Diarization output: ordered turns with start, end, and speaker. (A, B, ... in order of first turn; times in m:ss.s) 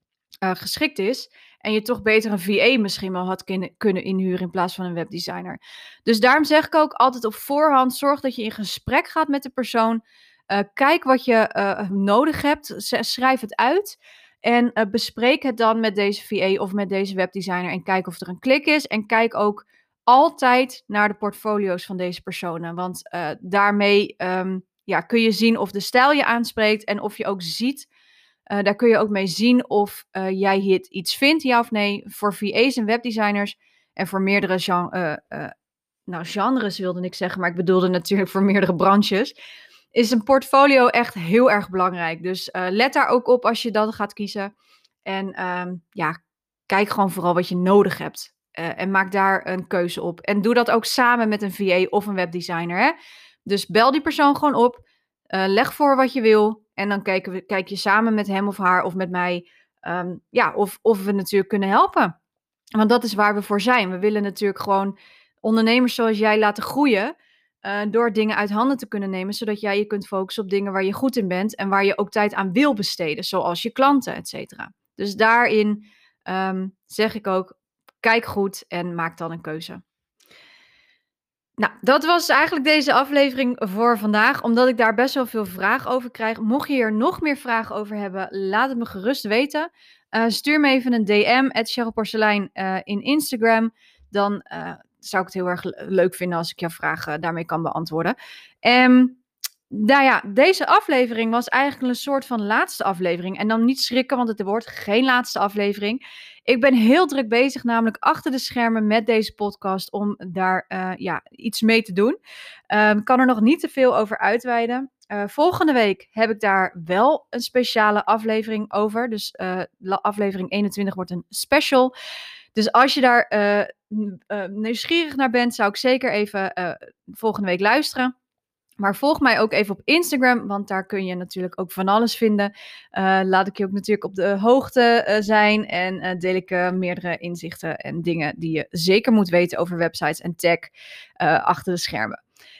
0:00.4-0:27.9 A
0:28.5-0:35.5 A
0:36.1-0:39.3 A
0:39.9-0:44.5 A
0:45.0-0:46.2 A
0:46.7-0:52.9 A
0:53.4-1:02.1 A
1:02.7-1:19.8 A
1:21.6-1:52.2 A
1:52.7-2:01.9 A
2:02.5-2:08.1 A
2:08.8-2:22.2 A